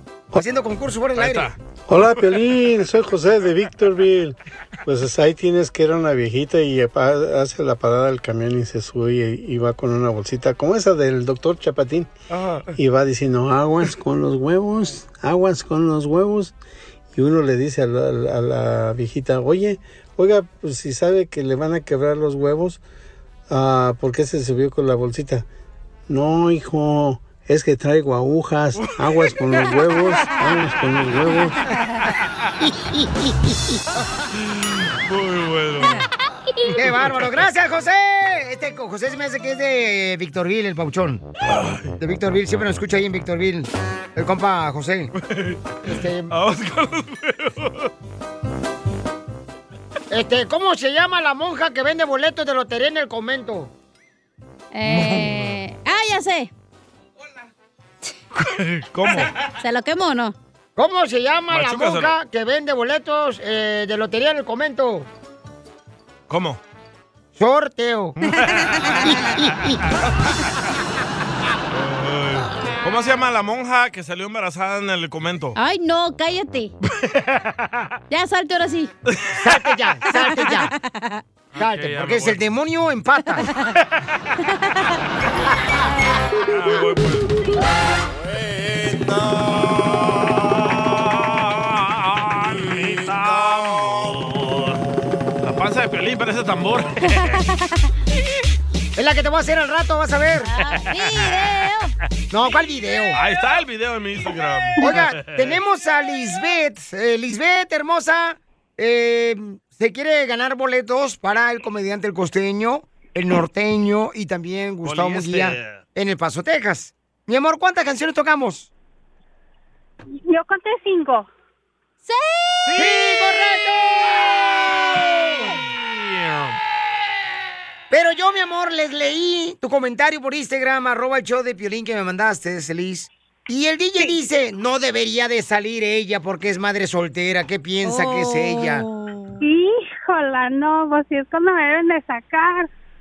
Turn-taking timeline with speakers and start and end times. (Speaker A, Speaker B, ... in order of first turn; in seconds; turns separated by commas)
Speaker A: 0.3-1.5, Speaker B: 1.2-2.1, Speaker C: 1.9-12.1, Speaker C: 12.8-16.5, Speaker C: 17.1-22.8, Speaker C: 23.5-25.5, Speaker C: 26.1-31.6, Speaker B: 28.8-29.3, Speaker B: 34.4-36.0, Speaker A: 36.8-41.2, Speaker B: 37.0-37.2, Speaker B: 41.5-41.9, Speaker A: 42.0-45.1, Speaker B: 45.2-45.8, Speaker A: 45.9-46.3, Speaker B: 46.3-47.9, Speaker A: 50.1-53.7, Speaker D: 54.7-56.5, Speaker B: 54.9-55.6, Speaker B: 58.4-59.3, Speaker D: 59.6-60.4, Speaker A: 60.8-65.1, Speaker B: 61.5-62.1, Speaker B: 66.3-66.6, Speaker A: 67.4-68.2, Speaker B: 68.3-69.1, Speaker A: 69.0-69.8, Speaker B: 71.7-75.6, Speaker D: 75.6-76.7, Speaker B: 77.0-77.8, Speaker D: 78.1-78.9, Speaker B: 79.1-79.7, Speaker A: 79.4-80.7, Speaker D: 80.1-81.2, Speaker B: 81.5-82.4, Speaker A: 81.6-83.5, Speaker B: 86.4-87.3, Speaker B: 89.2-94.8, Speaker B: 95.4-97.4, Speaker D: 97.2-97.4, Speaker A: 99.0-100.5, Speaker D: 100.5-101.9, Speaker B: 100.7-101.6, Speaker A: 102.3-103.2, Speaker B: 103.1-105.6, Speaker A: 104.8-118.7, Speaker B: 114.8-115.8, Speaker E: 120.3-121.3, Speaker D: 122.0-122.8, Speaker B: 122.7-123.0, Speaker A: 122.8-124.2, Speaker B: 124.9-126.6, Speaker A: 127.9-138.9, Speaker D: 137.8-139.4, Speaker E: 139.4-142.7